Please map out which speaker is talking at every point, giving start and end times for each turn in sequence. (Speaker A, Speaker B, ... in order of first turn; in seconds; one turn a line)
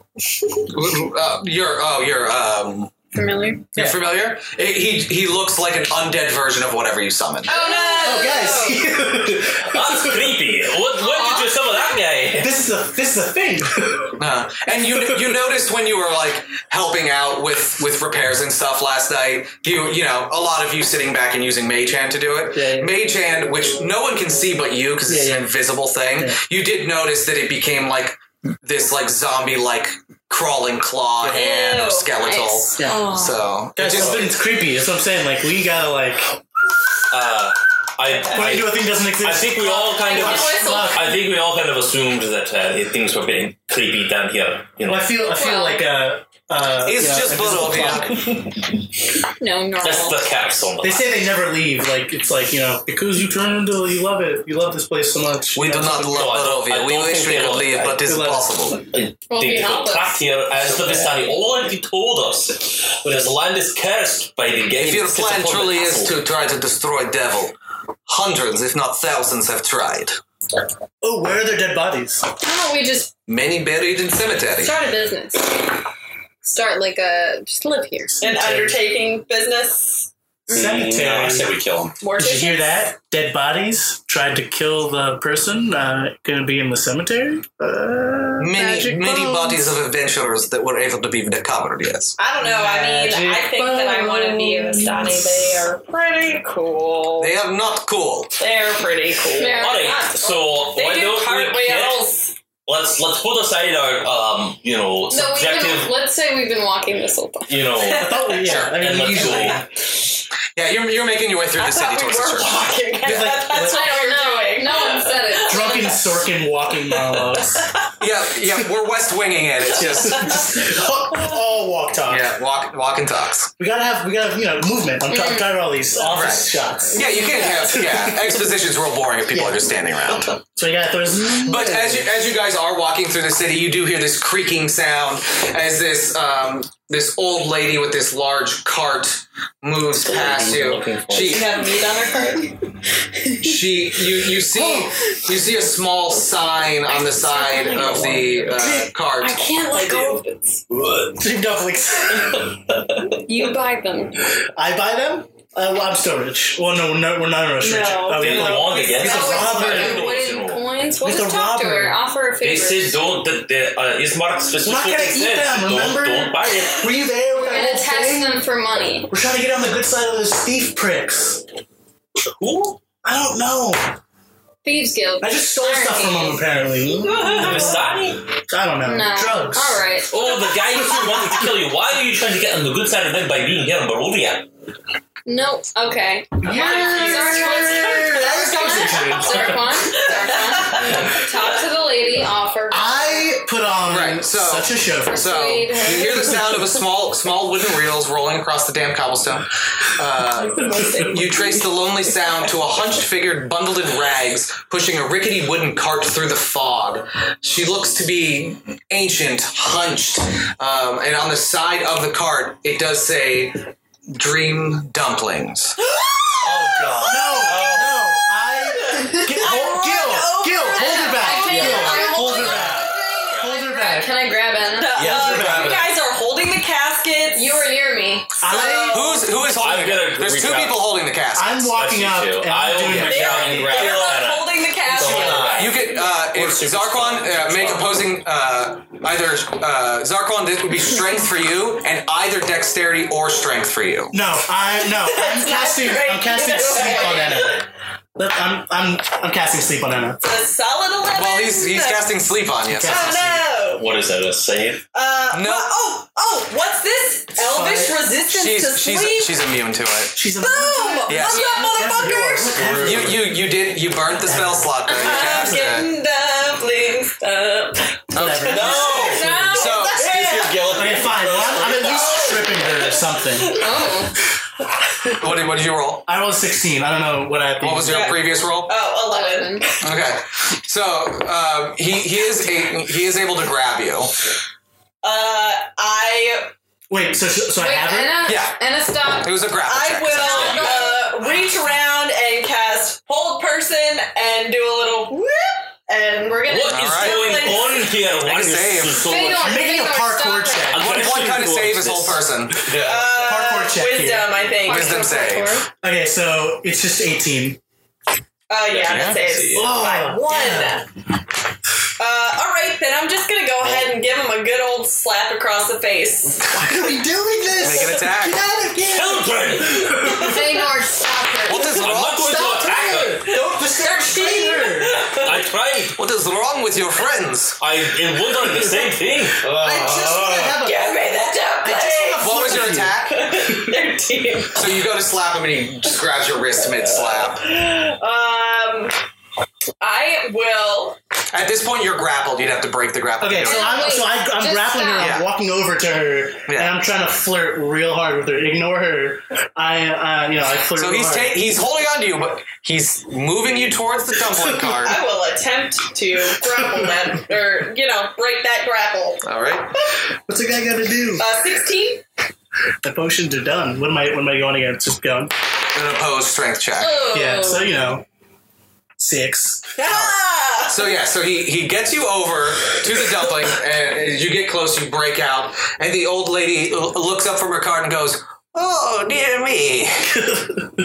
Speaker A: 0.7-2.9
Speaker B: 3.1-3.6
Speaker A: 3.7-7.5
Speaker C: 3.8-4.0
Speaker D: 7.4-8.9
Speaker B: 7.5-8.1
Speaker C: 8.0-10.4
Speaker E: 9.7-12.6
Speaker B: 11.0-11.4
Speaker C: 12.4-14.2
Speaker A: 14.2-34.4
Speaker C: 22.5-22.9
Speaker C: 25.1-25.5
Speaker C: 31.2-31.5
Speaker D: 31.3-33.4
Speaker B: 32.2-33.1
Speaker C: 33.8-36.4
Speaker E: 37.1-45.1
Speaker C: 38.2-41.1
Speaker B: 40.0-41.0
Speaker C: 44.8-48.5
Speaker B: 45.3-45.9
Speaker A: 46.8-48.2
Speaker B: 49.4-50.2
Speaker E: 49.8-51.1
Speaker C: 50.8-56.4
Speaker A: 55.5-58.9
Speaker E: 56.1-58.0
Speaker C: 58.0-58.6
Speaker E: 58.9-66.2
Speaker B: 59.3-60.2
Speaker F: 60.6-61.1
Speaker A: 64.8-67.5
Speaker A: 68.1-70.2
Speaker C: 71.0-72.2
Speaker B: 72.4-73.1
Speaker A: 73.3-74.7
Speaker B: 74.6-75.5
Speaker B: 76.4-78.2
Speaker C: 78.2-78.8
Speaker D: 78.2-80.1
Speaker C: 80.5-81.5
Speaker F: 80.5-82.0
Speaker D: 82.0-82.9
Speaker C: 82.2-89.7
Speaker A: 88.4-92.2
Speaker D: 92.2-97.4
Speaker C: 92.4-95.6
Speaker A: 97.2-98.3
Speaker D: 98.4-102.3
Speaker B: 99.4-100.2
Speaker E: 99.5-102.1
Speaker E: 102.7-105.9
Speaker B: 105.1-107.6
Speaker E: 107.5-109.6
Speaker D: 107.8-108.3
Speaker C: 107.9-109.7
Speaker A: 108.5-109.6
Speaker A: 110.5-113.3
Speaker D: 111.5-116.1
Speaker C: 113.0-113.9
Speaker B: 113.6-116.0
Speaker C: 115.5-117.7
Speaker D: 116.9-117.8
Speaker A: 118.0-120.4
Speaker C: 119.7-122.3
Speaker A: 122.1-123.5
Speaker C: 123.6-128.5
Speaker B: 125.1-125.7
Speaker A: 126.1-130.4
Speaker C: 129.3-129.6
Speaker C: 130.6-132.1
Speaker A: 131.4-141.6
Speaker E: 140.0-141.4
Speaker D: 141.1-142.6
Speaker A: 143.4-149.5
Speaker C: 144.6-144.9
Speaker B: 147.3-147.8
Speaker C: 148.5-148.9
Speaker B: 149.2-150.2
Speaker D: 149.5-150.6
Speaker C: 151.1-152.5
Speaker B: 153.2-154.2
Speaker C: 154.6-160.0
Speaker D: 157.6-159.8
Speaker E: 158.1-160.7
Speaker B: 159.0-163.0
Speaker C: 161.0-162.0
Speaker E: 162.4-166.9
Speaker C: 164.6-168.5
Speaker B: 167.4-169.1
Speaker C: 169.1-171.4
Speaker E: 172.4-172.8
Speaker C: 173.0-174.0
Speaker B: 174.6-176.4
Speaker C: 175.2-177.9
Speaker E: 177.1-178.3
Speaker C: 178.5-179.8
Speaker B: 178.8-180.2
Speaker E: 180.1-184.5
Speaker B: 185.2-193.4
Speaker C: 186.4-189.8
Speaker D: 186.4-191.1
Speaker C: 192.7-195.3
Speaker A: 193.9-215.8
Speaker B: 195.1-196.2
Speaker D: 200.4-201.7
Speaker C: 200.7-201.1
Speaker D: 215.8-217.3
Speaker F: 216.4-217.9
Speaker C: 217.1-224.1
Speaker D: 218.4-223.4
Speaker B: 220.8-225.1
Speaker E: 222.1-222.8
Speaker D: 224.7-227.6
Speaker C: 224.9-225.9
Speaker A: 225.1-225.9
Speaker B: 227.3-228.9
Speaker C: 228.4-229.2
Speaker D: 228.4-229.2
Speaker A: 228.9-231.7
Speaker E: 229.4-230.9
Speaker C: 231.3-233.9
Speaker E: 231.7-235.8
Speaker D: 233.0-235.6
Speaker C: 234.9-235.6
Speaker F: 235.1-235.7
Speaker A: 235.6-244.2
Speaker F: 236.3-237.9
Speaker C: 244.1-250.2
Speaker D: 244.8-247.7
Speaker D: 250.2-252.1
Speaker A: 251.1-253.3
Speaker C: 252.7-253.4
Speaker D: 252.8-253.9
Speaker E: 253.7-254.8
Speaker D: 254.9-259.4
Speaker A: 255.3-255.7
Speaker C: 257.4-258.1
Speaker A: 258.2-260.2
Speaker C: 260.1-263.4
Speaker D: 260.4-262.6
Speaker A: 261.1-261.6
Speaker B: 261.3-261.8
Speaker F: 262.3-263.1
Speaker A: 262.8-265.9
Speaker C: 264.1-265.5
Speaker D: 264.9-270.7
Speaker A: 268.1-269.0
Speaker C: 268.1-269.8
Speaker E: 268.5-269.3
Speaker B: 269.1-269.5
Speaker A: 269.5-270.1
Speaker F: 269.9-271.9
Speaker C: 270.7-273.6
Speaker D: 271.9-274.0
Speaker B: 273.6-274.1
Speaker A: 275.2-276.1
Speaker C: 276.1-278.2
Speaker A: 277.6-278.7
Speaker D: 277.9-279.9
Speaker B: 279.1-279.6
Speaker A: 279.8-284.1
Speaker D: 285.0-286.5
Speaker C: 286.9-288.2
Speaker B: 287.6-289.3
Speaker A: 288.2-288.6
Speaker A: 289.2-290.9
Speaker D: 289.6-297.9
Speaker B: 290.1-291.0
Speaker E: 296.4-299.6
Speaker A: 296.7-297.5
Speaker A: 298.2-299.1
Speaker B: 299.0-300.8
Speaker C: 299.2-301.1
Speaker E: 300.7-302.2
Speaker A: 300.8-302.7
Speaker F: 302.6-303.2
Speaker D: 302.8-305.1
Speaker C: 303.1-304.3
Speaker B: 304.6-305.7
Speaker A: 304.6-305.6
Speaker C: 305.8-307.6
Speaker D: 308.5-310.9
Speaker E: 308.7-309.7
Speaker A: 308.9-309.2
Speaker C: 309.6-310.8
Speaker D: 312.0-316.5
Speaker C: 316.5-320.4
Speaker A: 317.6-318.4
Speaker E: 318.9-320.4
Speaker B: 320.2-321.8
Speaker A: 321.5-322.7
Speaker E: 321.7-323.3
Speaker C: 322.2-325.1
Speaker D: 323.2-325.4
Speaker E: 325.2-326.0
Speaker A: 326.0-327.6
Speaker E: 327.6-329.5
Speaker F: 329.4-330.5
Speaker C: 329.6-331.1
Speaker D: 330.5-332.5
Speaker C: 331.6-333.0
Speaker A: 332.2-333.2
Speaker D: 333.1-334.7
Speaker A: 334.5-337.4
Speaker D: 337.3-338.9
Speaker D: 339.8-341.0
Speaker A: 341.3-343.9
Speaker C: 343.2-351.4
Speaker B: 343.4-345.1
Speaker A: 345.0-345.2
Speaker A: 346.5-346.7
Speaker A: 350.8-355.0
Speaker D: 354.8-359.2
Speaker A: 359.2-359.7
Speaker C: 360.3-361.2
Speaker D: 361.2-362.1
Speaker C: 362.8-365.3
Speaker A: 365.7-367.0
Speaker B: 366.8-367.6
Speaker C: 367.1-368.1
Speaker C: 369.0-369.7
Speaker D: 369.8-370.8
Speaker A: 369.8-380.3